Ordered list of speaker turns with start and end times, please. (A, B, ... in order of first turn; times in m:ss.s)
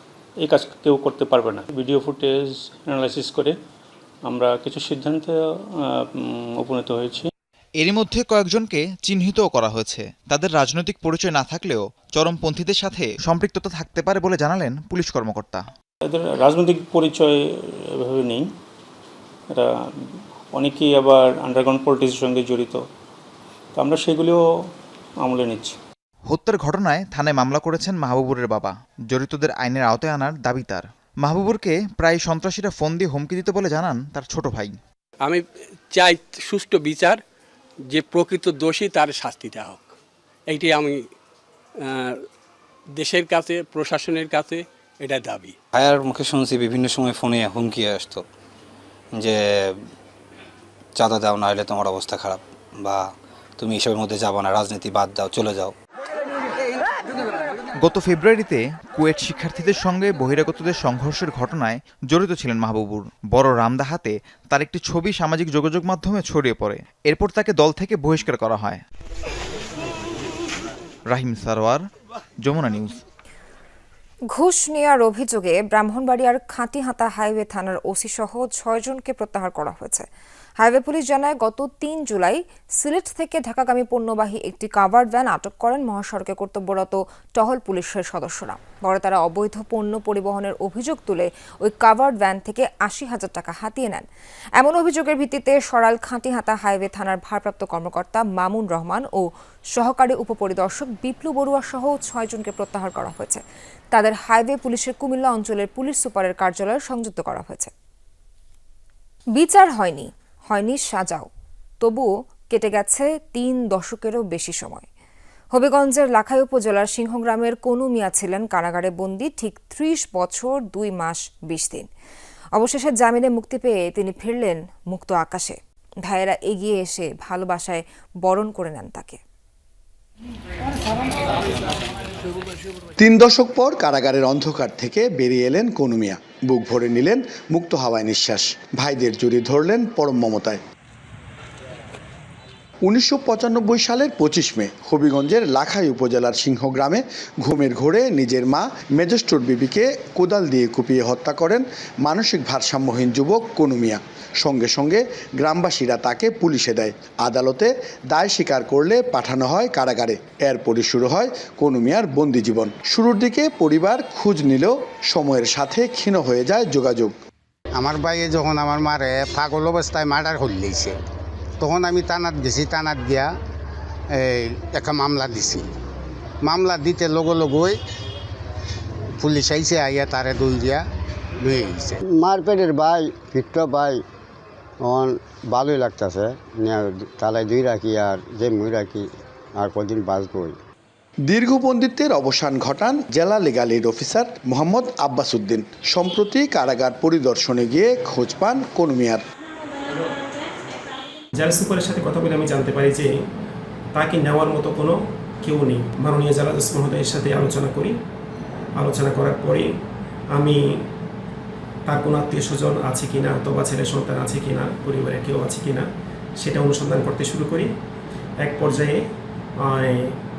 0:00.4-0:03.5 A
0:04.3-0:07.3 A
0:07.8-0:15.6 B
0:16.0-0:17.3 A
0:17.8-0:18.4 A
0:19.5-0:22.8 A
0:23.7-0:24.4 A
0:25.2-0:25.8 A
0:26.3-0:34.8 B
0:35.2-0:37.2 C
0:37.9-0:39.9 C
0:40.5-0:41.1 C
0:41.8-0:42.2 C
0:43.0-0:45.5 C
0:45.7-0:48.2 D
0:49.2-0:49.8 D
0:51.0-0:55.7 D
0:57.8-1:08.8 B
1:11.1-1:11.8 B
1:12.4-1:13.0 B
1:14.3-1:20.1 E
1:20.6-1:34.0 E
1:34.6-1:47.7 E
1:49.3-1:51.3 E
1:51.8-1:54.9 E
1:55.5-2:01.9 E
2:02.6-2:09.2 E
2:13.0-2:20.6 F
2:22.8-2:47.1 F
2:47.8-2:51.0 G
2:51.6-2:53.3 G
2:54.1-2:55.6 G
2:56.4-2:57.8 G
2:59.2-3:00.8 G
3:01.4-3:02.0 G
3:02.1-3:04.0 H
3:04.8-3:10.6 H
3:11.3-3:19.2 F
3:21.4-3:23.1 I
3:23.9-3:27.9 I
3:28.8-3:29.7 I
3:31.9-3:35.9 I
3:36.4-3:37.7 I
3:38.4-3:39.0 I
3:39.6-3:40.1 I